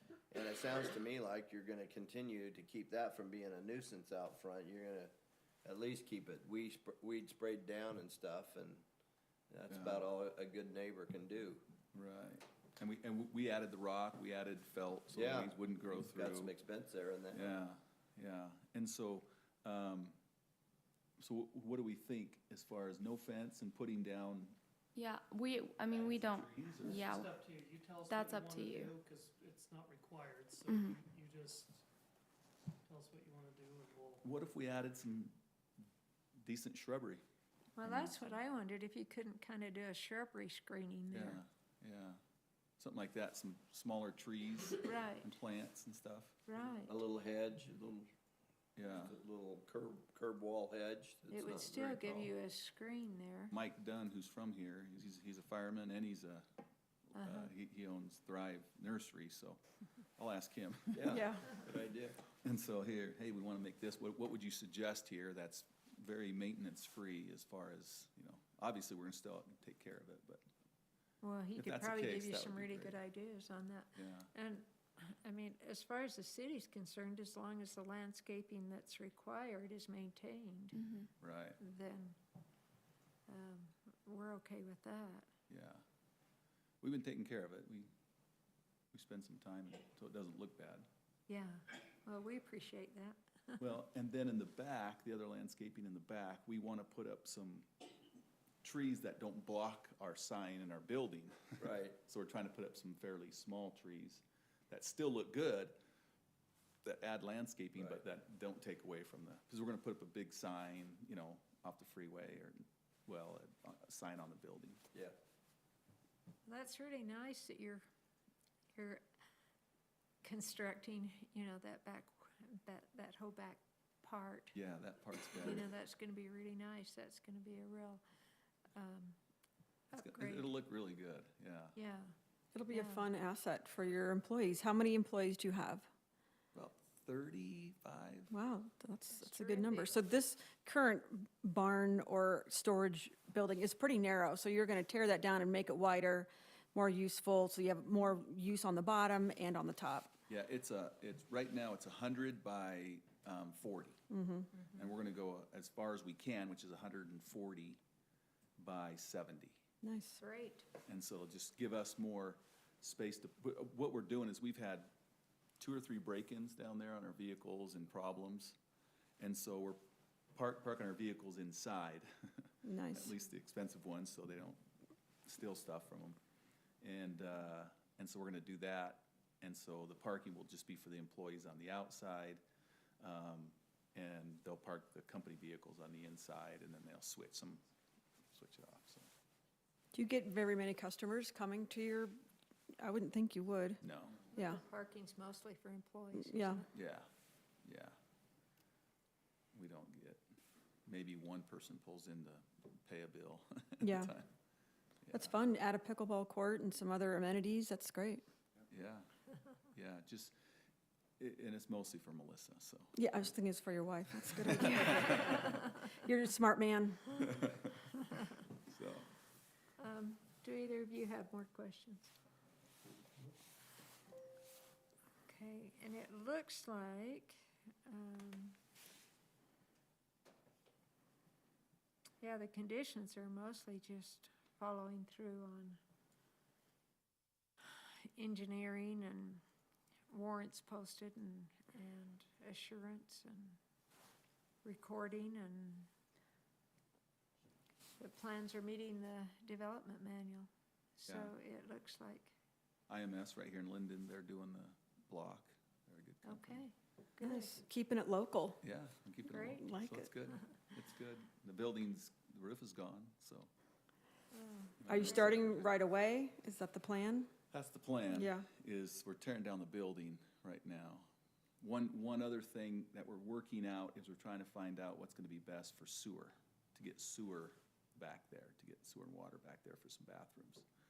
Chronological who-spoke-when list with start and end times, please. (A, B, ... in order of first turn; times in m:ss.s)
0:00.3-0:05.1 A
0:05.6-0:08.8 A
0:09.5-0:11.6 A
0:09.7-0:10.1 B
0:11.9-0:16.5 B
0:15.1-0:17.5 A
0:17.3-0:20.2 B
0:21.2-0:24.6 B
0:25.0-0:27.3 C
0:25.9-0:27.2 B
0:27.1-0:31.8 D
0:28.1-0:29.0 C
0:30.7-0:31.0 C
0:32.9-0:34.2 D
0:34.2-0:35.4 B
0:36.4-0:37.2 B
0:37.8-0:41.4 E
0:37.8-0:38.3 B
0:41.1-0:42.2 B
0:42.8-0:46.4 B
0:44.8-0:45.4 E
0:46.5-0:46.9 E
0:46.8-0:48.1 A
0:48.8-0:49.2 B
0:48.8-0:52.3 A
0:51.3-0:53.5 E
0:53.5-0:56.5 B
0:57.1-0:59.6 B
0:57.2-0:57.5 E
1:00.2-1:01.6 B
1:00.9-1:02.2 A
1:01.1-1:01.5 F
1:02.3-1:10.4 B
1:11.2-1:20.9 E
1:11.6-1:13.0 B
1:14.0-1:14.3 B
1:20.8-1:21.1 C
1:21.2-1:21.6 B
1:21.6-1:22.2 E
1:23.3-1:25.3 E
1:25.5-1:25.8 B
1:26.8-1:27.9 B
1:28.9-1:30.9 B
1:31.3-1:33.6 E
1:33.6-1:37.7 B
1:38.6-1:45.8 B
1:41.6-1:42.0 A
1:46.8-1:54.8 B
1:56.5-1:57.8 E
1:58.8-1:59.1 E
2:00.2-2:04.6 E
2:04.5-2:05.7 B
2:05.4-2:08.0 E
2:08.7-2:09.2 E
2:09.9-2:10.5 E
2:09.9-2:11.8 B
2:11.8-2:12.1 E
2:12.5-2:15.9 F
2:12.7-2:13.1 E
2:16.5-2:18.3 B
2:18.3-2:30.1 F
2:19.2-2:20.1 E
2:30.3-2:34.0 B
2:34.1-2:34.5 F
2:34.7-2:37.8 B
2:38.6-2:39.6 B
2:39.8-2:40.2 F
2:40.2-2:40.7 E
2:40.9-2:44.9 B
2:45.6-2:48.6 B
2:49.2-2:49.8 B
2:50.4-2:54.6 B
2:52.6-2:53.1 F
2:55.2-2:56.2 B
2:56.8-3:02.4 B
3:03.0-3:07.6 B
3:08.3-3:09.1 B
3:09.9-3:12.2 F
3:12.8-3:13.8 F
3:13.8-3:14.3 B
3:14.3-3:16.7 E
3:14.3-3:14.6 F
3:16.2-3:16.6 F
3:16.7-3:17.1 B
3:17.6-3:18.0 B
3:19.5-3:20.2 B
3:20.9-3:24.3 B
3:23.8-3:24.1 F
3:25.0-3:25.4 B
3:25.1-3:28.2 F
3:28.7-3:29.1 B
3:29.7-3:30.4 B
3:31.2-3:33.0 B
3:33.0-3:37.3 F
3:34.4-3:35.6 B
3:37.2-3:37.7 B
3:38.5-3:39.1 B
3:39.8-3:42.1 E
3:45.2-3:48.6 E
3:52.2-3:55.8 E
3:57.7-3:59.4 E
4:00.1-4:03.6 E
4:04.6-4:05.9 E
4:08.0-4:12.3 E
4:11.1-4:11.3 B
4:12.9-4:16.6 B
4:16.2-4:17.6 E
4:17.2-4:18.6 F
4:18.6-4:23.5 B
4:19.3-4:19.6 E
4:19.4-4:20.1 F
4:24.3-4:25.3 E
4:24.8-4:25.8 B
4:24.9-4:27.3 F
4:27.5-4:31.1 B
4:28.1-4:28.5 F
4:31.6-4:40.7 B